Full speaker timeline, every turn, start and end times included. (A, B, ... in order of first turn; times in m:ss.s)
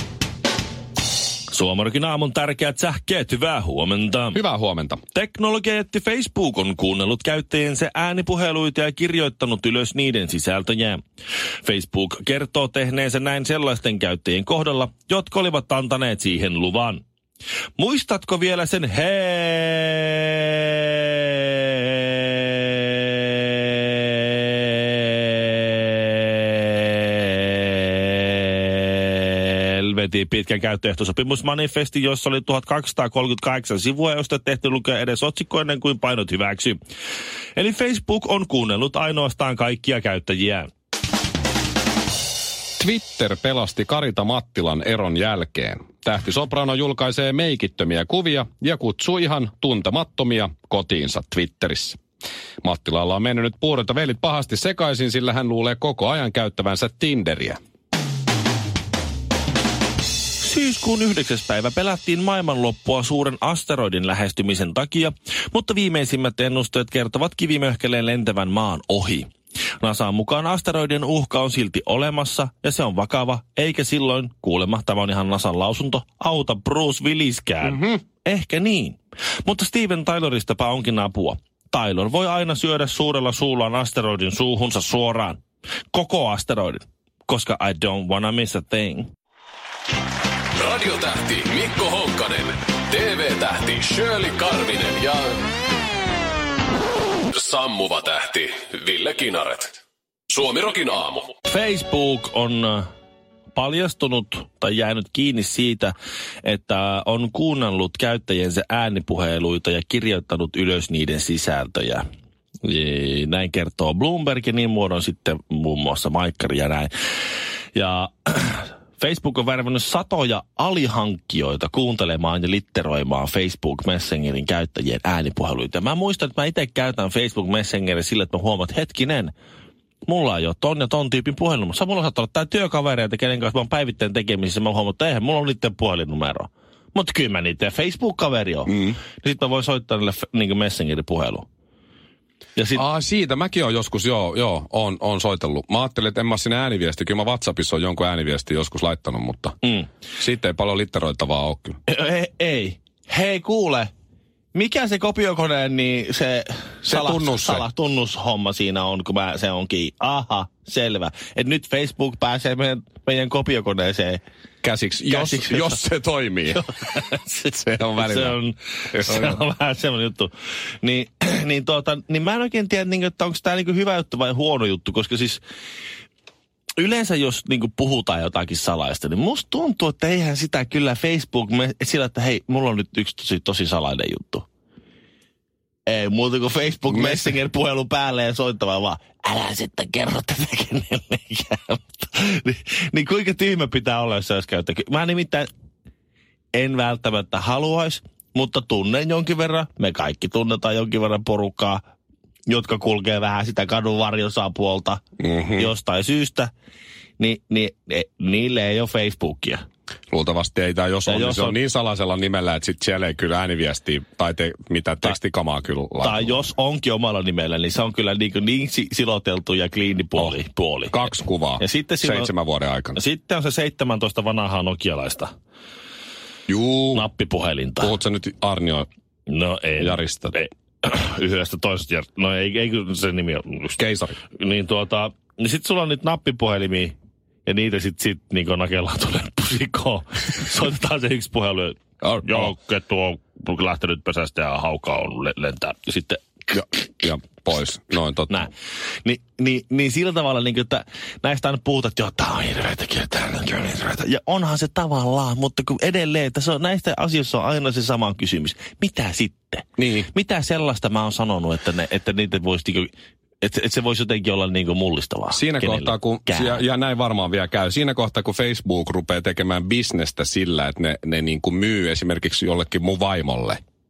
0:01.5-0:04.4 A
0:04.3-0:05.0 B
0:05.1-0:11.0 A
0:11.6-0:17.0 A
0:17.8-0:36.8 A
0:37.6-0:40.7 A
0:42.8-0:52.0 B
0:52.6-0:57.6 B
1:00.4-1:29.1 A
1:17.6-1:18.0 B
1:30.5-1:35.4 C
1:37.3-1:39.8 C
1:40.3-1:41.3 C
1:41.4-1:42.9 A
1:43.5-1:52.1 A
1:52.6-1:56.9 A
1:57.7-2:09.3 A
2:10.0-2:21.5 A
2:18.7-2:19.0 B
2:22.6-2:22.8 A
2:22.7-2:29.6 B
2:30.2-2:31.8 B
2:31.9-2:33.9 A
2:34.5-2:44.2 A
2:36.8-2:37.6 B
2:44.6-2:46.6 B
2:45.1-2:45.8 A
2:46.5-2:55.4 A
2:47.5-2:48.4 B
2:48.9-2:49.4 B
2:56.8-3:04.5 A
3:05.8-3:15.5 A
3:06.9-3:07.3 B
3:16.5-3:21.8 A
3:22.5-3:25.0 A
3:25.2-3:25.7 B
3:25.6-3:26.5 A
3:27.2-3:29.6 A
3:30.1-3:36.5 B
3:31.1-3:31.6 A
3:36.0-3:42.3 A
3:40.9-3:43.0 B
3:43.0-3:45.3 A
3:46.5-3:47.0 B
3:46.9-3:47.9 A
3:47.8-3:48.9 B
3:49.3-3:53.8 A
3:49.8-3:50.3 B
3:53.8-3:54.2 B
3:54.3-3:56.9 A
3:57.4-4:06.6 A
4:02.0-4:02.5 B
4:06.5-4:08.5 B
4:08.3-4:22.9 A
4:19.8-4:20.1 B
4:23.4-4:26.6 A
4:25.3-4:33.6 B